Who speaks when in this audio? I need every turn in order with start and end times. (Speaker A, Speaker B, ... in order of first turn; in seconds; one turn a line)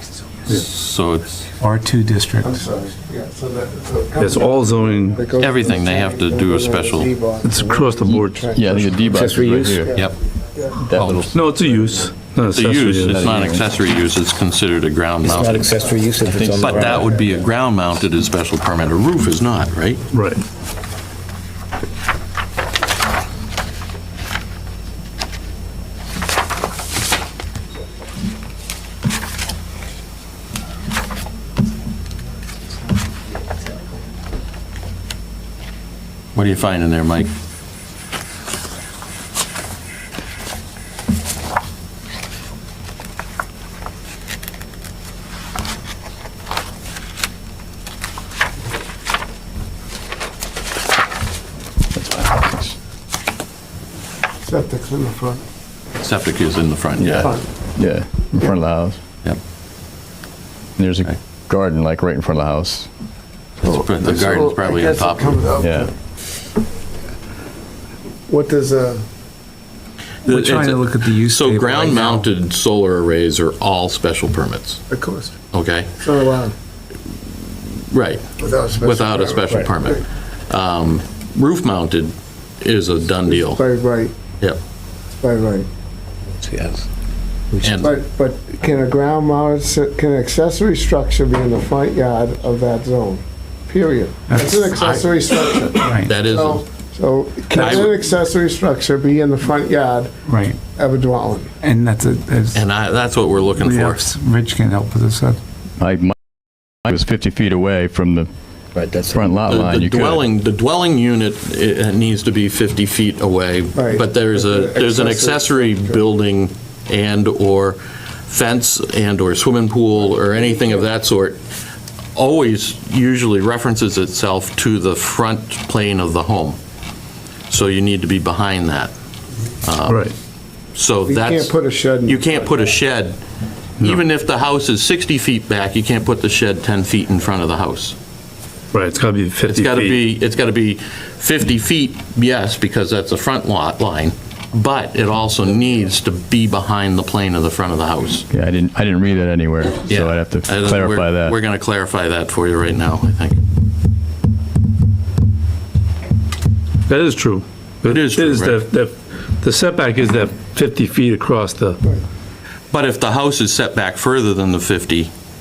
Speaker A: 0.5-1.4
Speaker B: 1.6-2.6
Speaker C: 2.4-10.9
Speaker D: 4.2-5.2
Speaker A: 5.3-7.2
Speaker D: 7.4-9.0
Speaker E: 8.5-9.9
Speaker F: 9.1-9.8
Speaker E: 10.9-11.3
Speaker A: 10.9-11.3
Speaker D: 11.3-13.3
Speaker A: 12.5-15.8
Speaker E: 13.0-13.7
Speaker F: 15.2-17.1
Speaker E: 16.2-17.1
Speaker A: 16.6-20.1
Speaker C: 16.9-17.3
Speaker D: 20.1-20.4
Speaker A: 36.4-37.3
Speaker E: 51.9-52.8
Speaker C: 54.5-55.4
Speaker A: 56.0-57.4
Speaker E: 57.0-59.0
Speaker C: 57.0-57.5
Speaker E: 60.8-62.9
Speaker A: 63.6-65.4
Speaker C: 63.6-65.9
Speaker E: 65.6-65.9
Speaker C: 68.3-69.0
Speaker B: 70.3-72.3
Speaker A: 70.3-74.8
Speaker C: 74.9-75.3
Speaker A: 75.5-75.9
Speaker C: 76.0-76.5
Speaker A: 77.9-78.2
Speaker C: 78.4-80.0
Speaker A: 78.8-83.6
Speaker C: 83.3-84.2
Speaker C: 85.2-85.7
Speaker F: 86.4-86.9
Speaker A: 87.6-88.0
Speaker C: 87.8-100.1
Speaker B: 94.3-94.6
Speaker A: 94.8-95.1
Speaker B: 95.8-96.2
Speaker A: 96.0-96.6
Speaker B: 97.6-97.9
Speaker A: 97.6-98.0
Speaker B: 100.2-100.6
Speaker C: 100.8-101.5
Speaker B: 101.6-102.7
Speaker A: 102.5-104.0
Speaker B: 103.6-105.4
Speaker E: 105.8-106.2
Speaker E: 106.8-108.3
Speaker F: 108.8-109.3
Speaker E: 109.0-110.2
Speaker A: 109.4-121.4
Speaker C: 113.7-116.1
Speaker C: 120.1-120.9
Speaker A: 122.2-126.6
Speaker A: 127.5-128.9
Speaker A: 129.6-130.1
Speaker D: 129.8-130.2
Speaker A: 130.7-133.2
Speaker C: 131.1-132.7
Speaker A: 133.8-138.0
Speaker D: 138.7-140.0
Speaker A: 139.5-148.3
Speaker E: 148.3-151.3
Speaker A: 149.9-153.4
Speaker D: 156.9-161.8
Speaker A: 157.9-158.6
Speaker A: 162.7-165.1